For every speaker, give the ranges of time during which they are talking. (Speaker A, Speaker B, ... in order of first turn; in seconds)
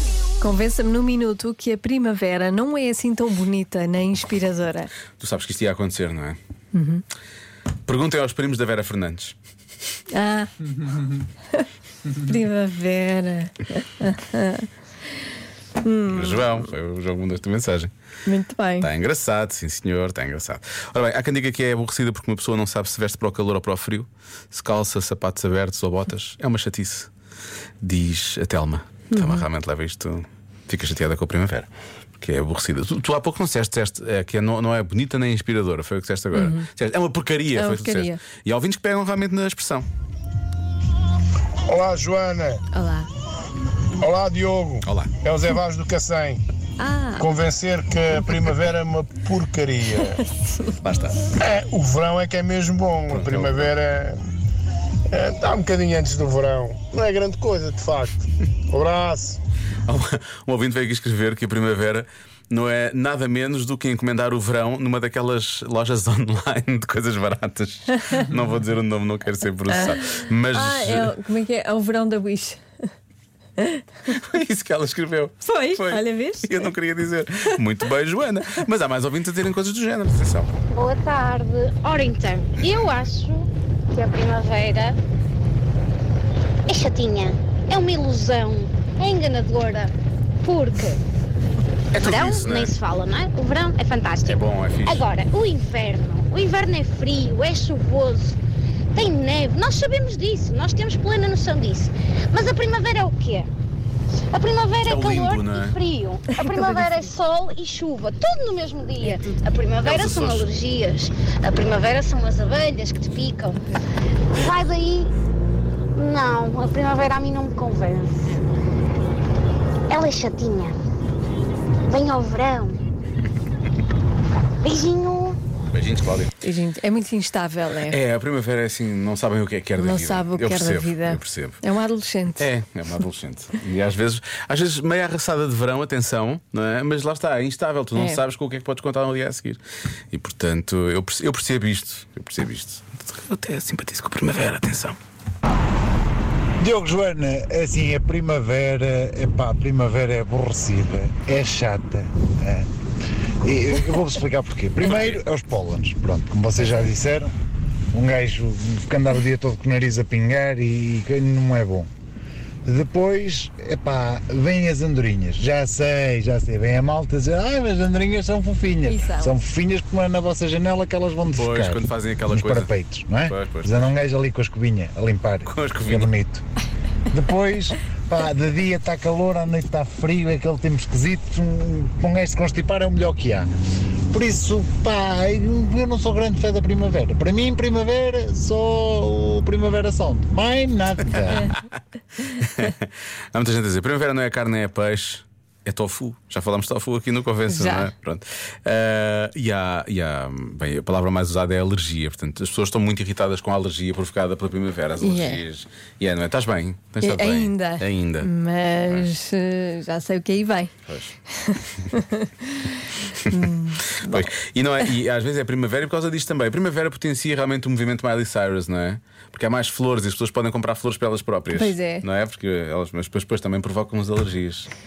Speaker A: 0.4-4.9, 6.7-7.0, 10.1-10.5, 11.6-14.7, 15.8-16.7, 18.3-18.9, 29.1-29.5, 36.3-36.6, 37.5-38.2, 42.7-43.1, 46.8-47.3, 50.4-50.7, 69.7-72.6, 73.6-73.8, 75.5-76.7, 106.3-107.1, 126.4-128.0, 129.8-132.5, 138.0-138.2, 168.9-169.4, 197.5-197.9, 205.0-205.4, 207.0-210.7, 211.3-214.3, 221.5-222.1
Speaker B: 5.2-6.4, 7.9-9.3, 16.1-17.9, 18.8-27.1, 27.8-39.9, 44.8-45.1, 50.8-51.2, 53.1-53.7, 59.9-71.2, 74.1-80.5, 91.9-92.8, 94.2-95.1, 104.8-105.8, 109.8-110.6, 125.7-126.3, 127.9-131.6, 132.4-139.6, 140.1-145.0, 154.8-155.2, 171.4-173.9, 175.5-176.1, 191.1-191.6, 192.3-208.3, 208.8-209.1, 210.9-211.1, 214.0-224.7
Speaker C: 41.7-42.6, 44.0-46.4, 47.2-50.2, 51.3-54.2, 55.1-59.4
Speaker D: 80.7-85.0, 86.7-91.0, 91.9-98.4, 99.0-103.5, 104.3-113.6, 114.3-115.1, 116.0-118.4, 119.9-120.8, 121.8-122.8, 124.6-125.4
Speaker E: 146.6-152.7, 153.4-157.3, 157.9-161.9, 162.7-176.4, 177.1-183.5, 184.1-191.5